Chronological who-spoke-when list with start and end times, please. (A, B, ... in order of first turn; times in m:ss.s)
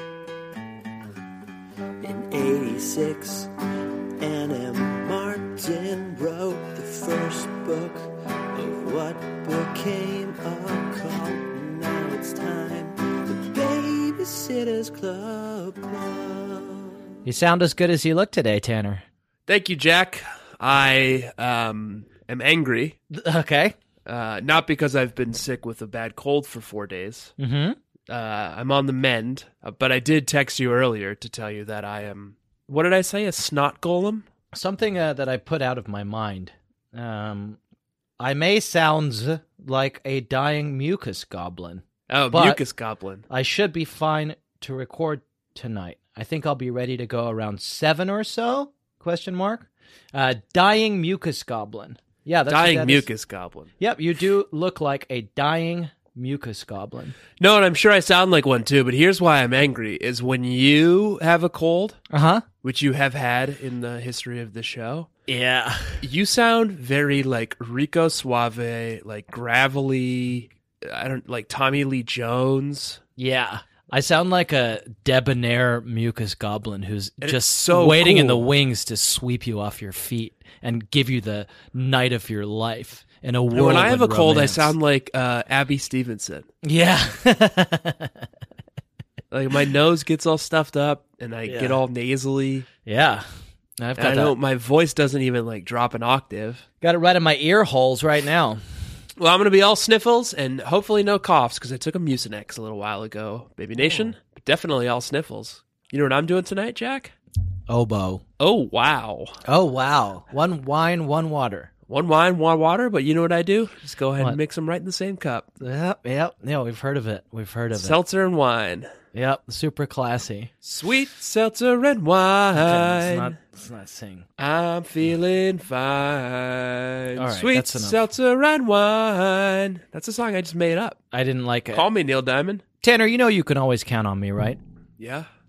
0:02.0-0:03.5 A
0:04.2-0:16.9 A
0:17.2-0:19.0 B
0:19.5-0:23.0 C
0:23.1-0:23.8 B
0:24.1-0:27.3 C
0:27.4-0:27.8 B
0:28.1-0:34.3 C
0:34.5-0:37.6 B
0:38.2-0:42.6 B
0:42.1-0:43.2 C
0:43.3-0:53.1 B
0:52.5-0:53.7 C
0:53.8-0:57.2 B
0:57.4-1:02.0 C
1:02.1-1:02.4 B
1:02.6-1:05.1 C
1:05.3-1:06.0 B
1:06.0-1:13.0 C
1:13.2-1:24.8 B
1:17.2-1:18.5 C
1:23.5-1:26.5 C
1:26.6-1:28.1 B
1:29.3-1:32.7 C
1:31.5-1:31.8 B
1:32.8-1:33.2 B
1:33.8-1:34.4 B
1:34.0-1:36.6 C
1:36.8-1:38.6 B
1:39.2-1:47.1 C
1:47.7-1:48.2 B
1:48.4-1:49.4 C
1:49.4-1:51.7 B
1:51.9-1:55.5 C
1:55.6-1:58.0 B
1:57.8-1:58.9 C
1:59.1-2:00.5 B
2:00.6-2:03.4 C
2:02.6-2:04.3 B
2:04.4-2:11.0 C
2:07.2-2:08.0 B
2:11.1-2:11.9 B
2:11.7-2:12.6 C
2:12.8-2:14.6 B
2:15.0-2:15.3 C